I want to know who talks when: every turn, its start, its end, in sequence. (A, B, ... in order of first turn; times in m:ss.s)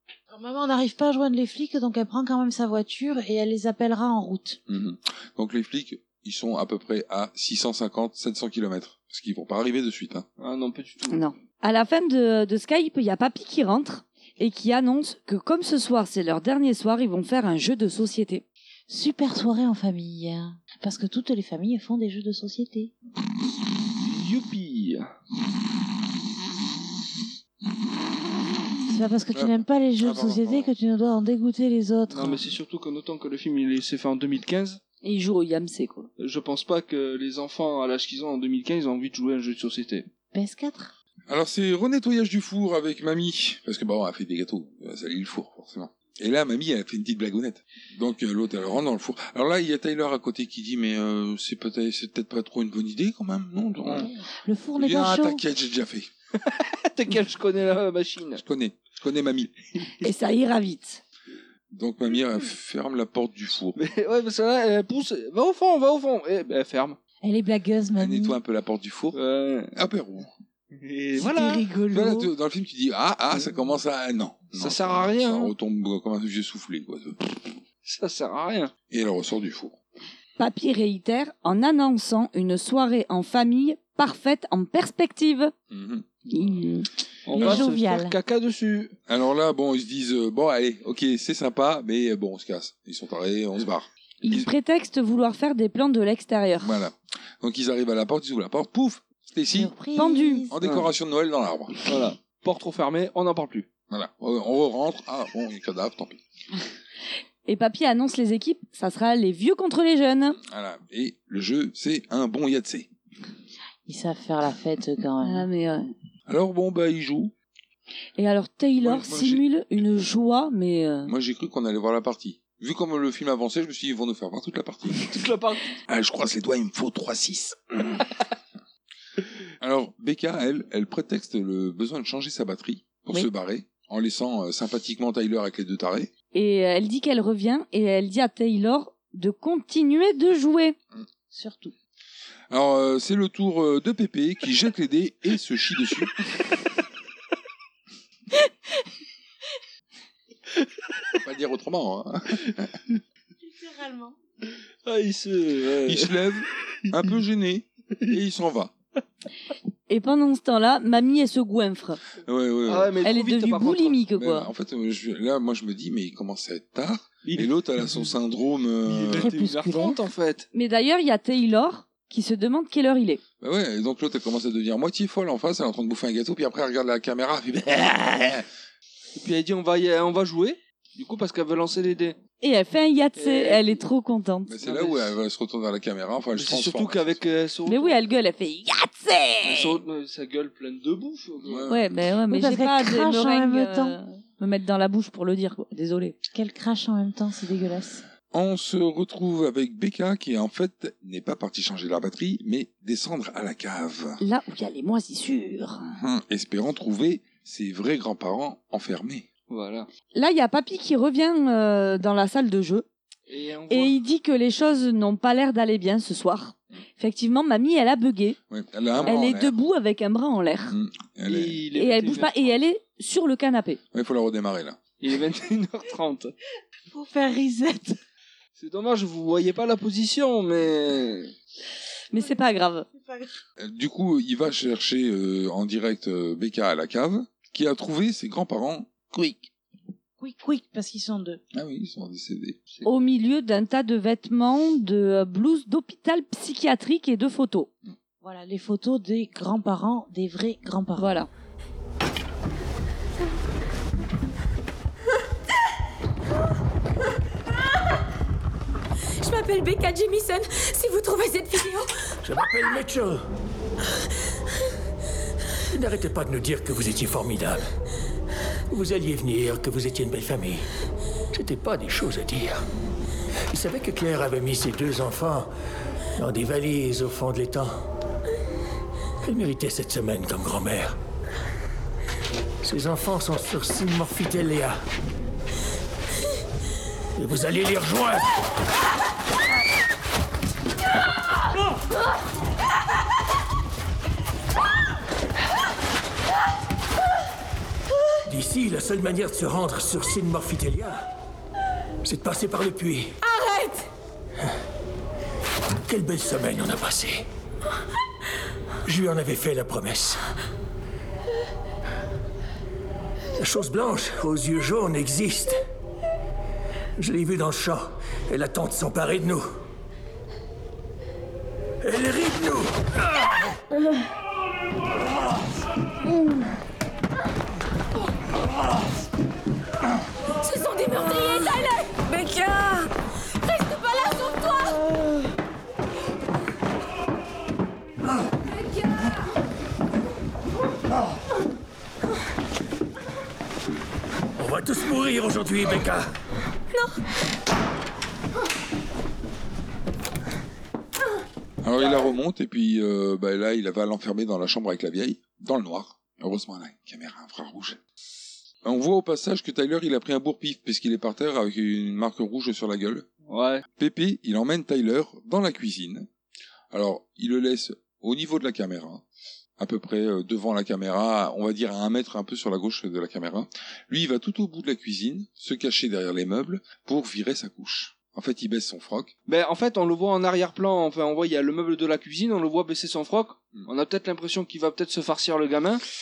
0:00.3-0:04.6 A
0:04.7-0:10.2 B
0:10.4-0:11.2 C
0:11.1-0:18.4 D
0:18.9-0:22.9 A
0:24.0-0:25.1 C
0:28.9-0:32.4 A
0:29.3-0:30.7 B
0:32.1-0:34.8 C
0:35.0-0:36.1 D
0:36.2-0:40.1 C
0:40.3-0:40.9 A
0:41.3-0:54.1 B
0:54.4-0:55.4 A
0:54.8-0:56.1 B
0:56.4-0:58.4 C
0:58.4-0:59.5 B
1:00.0-1:01.0 D
1:01.7-1:03.8 B
1:03.8-1:07.0 C
1:07.2-1:08.4 A
1:08.0-1:09.2 B
1:09.1-1:09.7 C
1:09.7-1:10.3 B
1:10.7-1:11.6 C
1:11.1-1:12.3 A
1:11.9-1:17.5 B
1:14.5-1:15.5 C
1:17.8-1:18.7 C
1:18.9-1:19.8 B
1:20.4-1:25.5 D
1:25.7-1:26.0 B
1:26.3-1:26.9 D
1:27.3-1:29.0 C
1:27.3-1:28.2 A
1:29.1-1:34.5 B
1:34.2-1:36.7 D
1:36.6-1:39.7 B
1:39.5-1:40.6 A
1:40.0-1:40.5 D
1:40.5-1:41.8 B
1:40.6-1:40.9 C
1:41.8-1:43.7 C
1:43.9-1:46.2 B
1:47.4-1:50.4 D
1:50.5-1:52.9 B
1:53.8-1:55.5 A
1:55.2-1:55.9 D
1:56.3-1:57.3 B
1:58.2-2:01.1 D
1:58.8-1:59.4 B
2:01.1-2:05.2 B
2:05.0-2:05.7 C
2:05.9-2:08.2 B
2:09.6-2:16.1 B
2:16.3-2:20.8 D
2:21.3-2:21.7 A
2:22.5-2:26.1 B
2:31.2-2:32.8 B
2:33.4-2:34.2 A
2:34.8-2:36.3 C
2:35.8-2:38.7 B
2:39.9-2:42.0 D
2:42.2-2:43.0 B
2:42.6-2:44.0 C
2:43.0-2:44.5 D
2:44.1-2:49.3 B
2:47.2-2:48.1 C
2:48.8-2:50.5 C
2:49.1-2:50.0 A
2:50.5-2:53.2 D
2:53.4-2:58.4 B
2:59.1-3:02.2 C
3:02.4-3:04.5 D
3:03.2-3:03.8 C
3:04.5-3:07.2 B
3:04.6-3:05.1 C
3:06.3-3:08.0 C
3:07.7-3:09.8 D
3:09.4-3:11.7 C
3:11.4-3:11.9 B
3:11.7-3:16.2 D
3:12.3-3:14.0 A
3:16.3-3:18.0 A
3:18.3-3:24.2 B
3:24.2-3:25.9 D
3:26.0-3:29.2 B
3:29.5-3:29.9 C
3:30.1-3:32.8 D
3:33.3-3:34.0 C
3:33.7-3:38.4 D
3:38.5-3:39.5 B
3:38.9-3:39.2 C
3:39.0-3:40.7 D
3:40.7-3:41.6 B
3:41.2-3:42.5 C
3:41.7-3:43.8 D
3:43.9-3:44.8 B
3:45.0-3:46.3 C
3:46.9-3:48.0 A
3:48.6-3:51.3 C
3:52.1-3:52.8 D
3:52.9-3:53.4 A
3:53.6-3:59.5 B
4:00.2-4:01.4 A
4:01.5-4:02.6 B
4:02.8-4:07.7 D
4:08.2-4:11.2 A
4:11.0-4:11.3 D
4:19.2-4:22.0 E
4:22.2-4:23.2 F
4:25.7-4:27.7 F
4:28.7-4:30.7 F
4:31.3-4:32.6 F
4:33.5-4:35.5 F
4:36.2-4:37.8 F
4:39.2-4:41.0 F
4:42.6-4:44.8 F
4:47.2-4:48.3 F
4:58.2-5:01.0 F
5:02.0-5:03.2 F
5:03.3-5:03.7 E
5:05.8-5:07.2 F
5:08.8-5:10.2 F
5:13.4-5:15.6 F
5:17.0-5:19.5 F
5:21.8-5:22.8 F
5:30.4-5:32.8 E
5:33.5-5:34.8 E
5:44.4-5:46.1 F
5:51.6-5:57.8 B
5:58.6-6:03.1 B
6:03.3-6:03.6 C
6:03.8-6:06.1 B
6:06.7-6:09.0 B
6:09.6-6:19.1 B
6:19.3-6:25.8 C